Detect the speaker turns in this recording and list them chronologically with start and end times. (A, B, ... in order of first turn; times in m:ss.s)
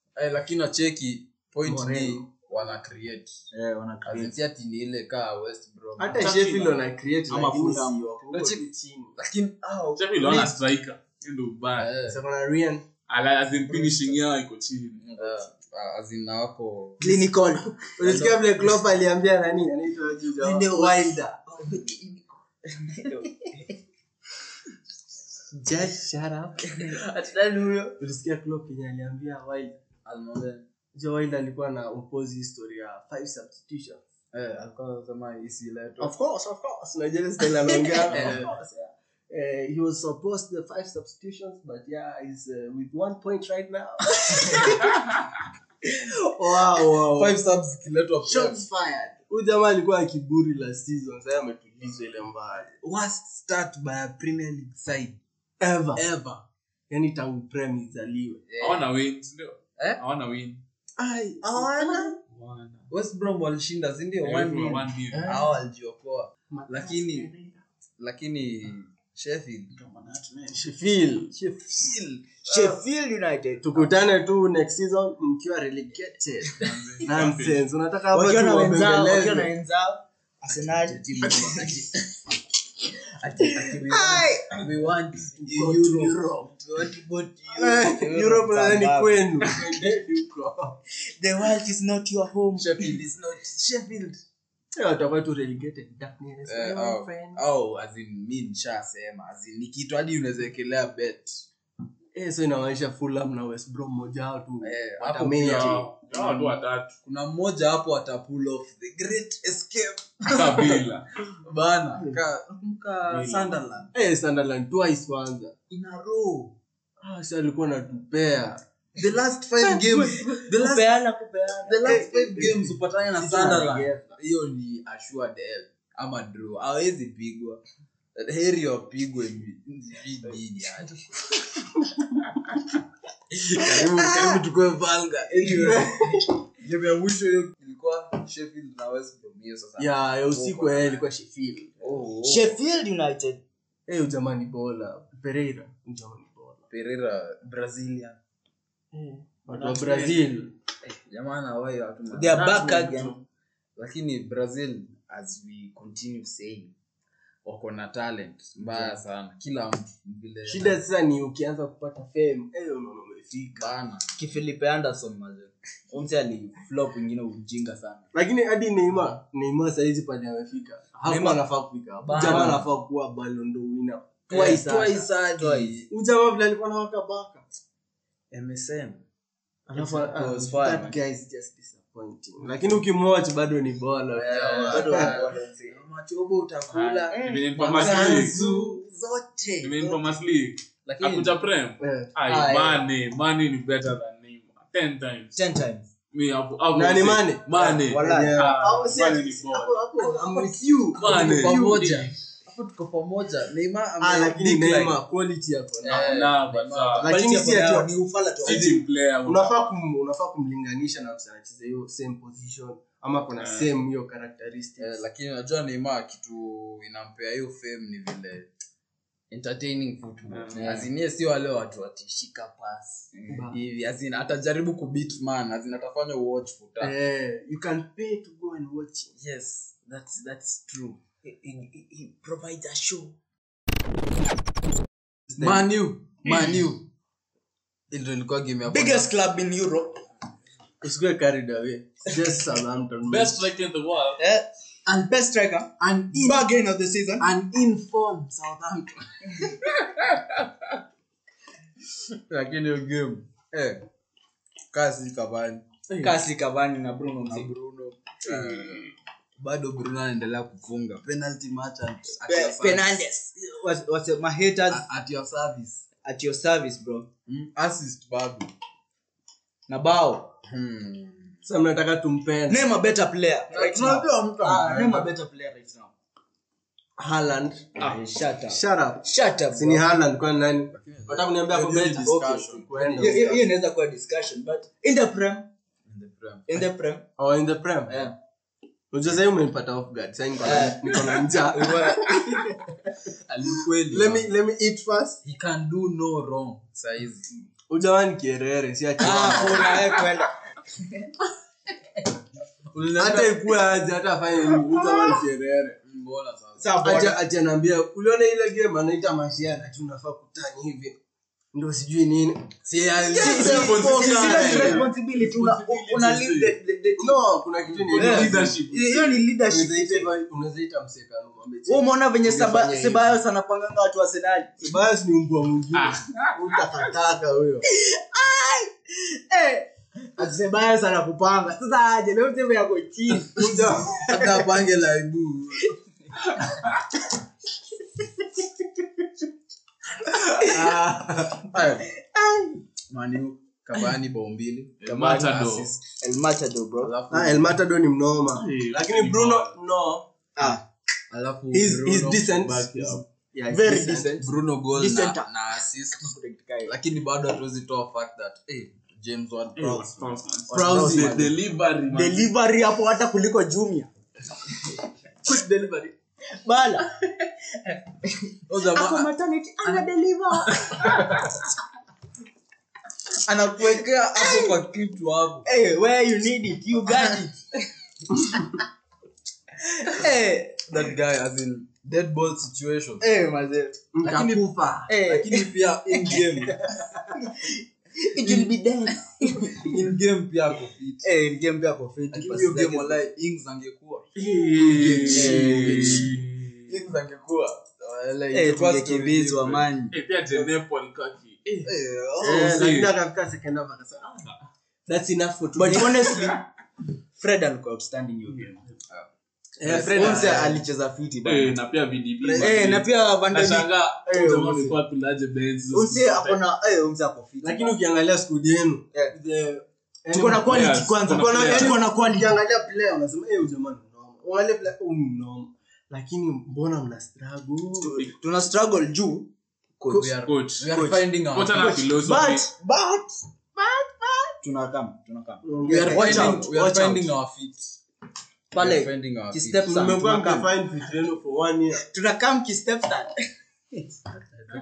0:00.2-0:03.4 A
0:01.6-0:02.3 B
0:03.5-0:04.4 C
0:04.1-0:06.7 A
0:06.0-0:09.2 B
0:06.3-0:06.6 D
0:07.3-0:08.0 C
0:08.3-0:10.6 A
0:10.0-0:11.9 D
0:11.8-0:12.2 A
0:12.0-0:12.8 B
0:13.1-0:15.1 D
0:15.1-0:17.2 A
0:17.0-0:17.7 C
0:18.0-0:21.4 B
0:18.0-0:18.8 A
0:20.4-0:22.2 C
0:22.8-0:23.6 C
0:25.5-0:26.8 B
0:27.2-0:27.9 A
0:28.0-0:29.8 B
0:30.0-0:30.7 A
0:31.0-0:34.0 B
0:34.3-0:36.1 A
0:36.0-0:44.8 B
0:38.0-0:38.6 A
0:46.4-0:47.4 B
0:47.2-0:48.7 A
0:48.3-0:52.7 B
0:52.8-0:55.2 A
0:55.6-0:56.0 B
0:56.0-0:56.4 A
0:56.9-0:58.4 B
0:58.5-0:58.9 A
0:58.6-1:00.6 D
1:01.0-1:02.1 B
1:01.4-1:02.2 A
1:02.3-1:02.9 D
1:02.9-1:07.3 A
1:04.2-1:05.4 D
1:05.1-1:05.5 B
1:06.5-1:07.6 B
1:08.0-1:10.5 A
1:10.5-1:11.4 B
1:11.3-1:12.8 A
1:12.5-1:13.9 C
1:13.6-1:19.5 B
1:16.6-1:17.6 D
1:18.1-1:21.9 C
1:21.2-1:21.8 A
1:23.2-1:26.6 A
1:23.6-1:24.6 C
1:25.4-1:26.5 B
1:26.7-1:29.5 C
1:27.5-1:30.8 B
1:31.1-1:33.0 C
1:32.6-1:34.2 A
1:34.8-1:37.4 B
1:36.5-1:41.4 A
1:42.2-1:45.9 B
1:44.6-1:50.8 A
1:45.4-1:46.9 D
1:50.3-1:51.1 D
1:51.4-1:53.9 A
1:53.1-1:53.6 D
1:53.9-1:55.5 B
1:55.7-1:56.5 C
1:57.0-1:58.6 B
1:59.0-2:00.9 A
1:59.7-2:02.5 C
2:01.6-2:07.6 A
2:01.8-2:04.2 B
2:08.2-2:11.0 A
2:13.3-2:21.1 A
2:13.7-2:14.4 C
2:15.5-2:16.2 B
2:19.8-2:22.0 B
2:21.8-2:22.6 A
2:22.2-2:23.4 C
2:23.9-2:26.6 B
2:26.7-2:28.2 A
2:28.9-2:30.5 B
2:29.5-2:30.3 A
2:30.8-2:33.2 A
2:32.1-2:33.2 C
2:33.8-2:36.7 A
2:37.4-2:40.8 A
2:40.5-2:43.7 B
2:43.6-2:44.1 A
2:44.2-2:48.0 C
2:48.1-2:55.0 B
2:51.0-2:51.4 C
2:52.0-2:52.6 C
2:52.1-2:52.6 A
2:54.3-2:55.9 A
2:54.3-2:55.8 C
2:55.9-2:57.4 B
2:58.3-2:59.0 A
2:59.7-3:05.2 B
2:59.8-3:00.8 A
3:00.2-3:00.9 C
3:04.2-3:08.8 A
3:04.6-3:05.8 C
3:06.7-3:08.4 D
3:07.1-3:10.2 C
3:07.7-3:08.8 B
3:09.6-3:15.4 D
3:10.9-3:11.3 A
3:11.8-3:12.1 B
3:12.3-3:12.8 A
3:12.4-3:12.8 C
3:15.4-3:15.9 C
3:16.1-3:19.8 D
3:16.7-3:22.0 B
3:17.6-3:18.4 C
3:20.3-3:25.0 A
3:21.0-3:22.1 D
3:24.0-3:26.1 B
3:25.8-3:27.2 A
3:25.9-3:27.1 D
3:27.0-3:27.9 B
3:27.0-3:28.8 C
3:28.4-3:29.8 D
3:28.5-3:35.0 B
3:33.4-3:33.7 D
3:34.8-3:38.5 A
3:39.3-3:46.9 A
3:40.3-3:40.8 D
3:43.3-3:43.6 B
3:46.8-3:49.1 B
3:49.2-3:51.0 A
3:51.2-3:53.2 C
3:55.3-3:55.7 B
3:55.4-3:56.9 A
3:57.9-3:59.1 A
3:58.6-4:00.0 C
4:00.8-4:03.4 B
4:03.1-4:04.2 D
4:04.2-4:07.3 C
4:05.8-4:06.4 A
4:07.2-4:09.6 A
4:12.3-4:13.8 A
4:14.7-4:16.2 A
4:16.0-4:17.5 C
4:17.3-4:23.0 A
4:18.6-4:18.9 D
4:22.3-4:24.9 C
4:24.7-4:25.9 A
4:26.0-4:27.1 C
4:27.3-4:28.5 A
4:29.7-4:30.4 C
4:30.4-4:31.4 A
4:31.4-4:32.7 B
4:32.5-4:35.9 C
4:33.5-4:35.1 A
4:37.0-4:37.7 B
4:37.8-4:39.9 C
4:38.5-4:43.4 B
4:40.7-4:43.4 A
4:43.0-4:45.5 C
4:45.9-4:46.6 A
4:46.5-4:47.1 C
4:47.2-4:48.1 B
4:48.9-4:51.8 B
4:50.4-4:52.4 C
4:51.5-4:52.4 A
4:53.3-4:54.3 A
4:53.9-4:55.2 B
4:55.2-4:57.3 A
4:57.7-4:59.7 B
4:59.0-5:00.3 C
4:59.0-4:59.8 A
5:02.7-5:03.5 A
5:03.0-5:05.8 B
5:05.8-5:06.8 A
5:06.6-5:07.2 C
5:06.8-5:11.0 B
5:11.5-5:14.7 B
5:12.7-5:14.8 A
5:13.1-5:17.4 C
5:13.2-5:16.5 D
5:17.0-5:18.6 B
5:17.8-5:19.2 D
5:18.0-5:20.1 C
5:19.4-5:23.2 B
5:21.7-5:24.6 C
5:24.6-5:27.7 B
5:25.7-5:26.3 D
5:27.7-5:34.4 C
5:33.3-5:34.1 B
5:34.0-5:35.7 A
5:40.4-5:40.8 C
5:40.5-5:41.3 B
5:41.4-5:41.9 A
5:42.0-5:42.6 C
5:42.9-5:45.8 A
5:44.8-5:45.7 D
5:45.9-5:46.9 C
5:46.8-5:47.5 A
5:47.1-5:50.1 B
5:48.4-5:49.6 D
5:50.4-5:50.6 C
5:51.1-5:53.0 A
5:51.5-5:54.2 B
5:53.5-5:55.3 C
5:54.1-5:56.1 A
5:56.0-5:56.7 C
5:56.6-6:01.3 A
5:59.6-6:02.3 D
6:00.5-6:01.2 B
6:00.5-6:01.3 C
6:01.9-6:03.9 C
6:05.2-6:06.0 B
6:06.4-6:11.1 C
6:08.5-6:09.1 A
6:13.3-6:15.5 A
6:14.2-6:14.6 C
6:15.4-6:17.7 C
6:19.8-6:20.8 C
6:19.9-6:23.1 A
6:23.0-6:23.9 C
6:23.9-6:24.9 B
6:24.0-6:26.8 A
6:24.9-6:26.3 C
6:27.1-6:29.8 C
6:29.6-6:31.1 A
6:31.0-6:33.1 C
6:32.1-6:36.2 A
6:34.2-6:36.1 B
6:34.3-6:36.6 D
6:35.2-6:36.1 C
6:36.7-6:39.7 A
6:38.3-6:40.0 C
6:39.9-6:41.7 D
6:41.6-6:42.6 A
6:42.2-6:44.2 B
6:42.4-6:42.9 D
6:44.9-6:46.1 B
6:45.6-6:46.4 C
6:47.2-6:48.5 C
6:49.6-6:50.6 B
6:49.6-6:50.6 A
6:49.7-6:51.6 C
6:51.2-6:56.4 D
6:52.4-6:53.7 C
6:54.1-6:54.8 B
6:55.7-6:57.8 C
6:57.4-7:08.0 B
7:00.1-7:02.4 C
7:00.4-7:01.8 D
7:07.8-7:17.1 C
7:09.9-7:11.9 A
7:10.2-7:10.7 D
7:11.3-7:12.5 D
7:15.4-7:16.4 B
7:15.7-7:17.8 A
7:18.5-7:19.8 A
7:18.6-7:20.5 C
7:19.6-7:21.8 B
7:21.8-7:23.2 C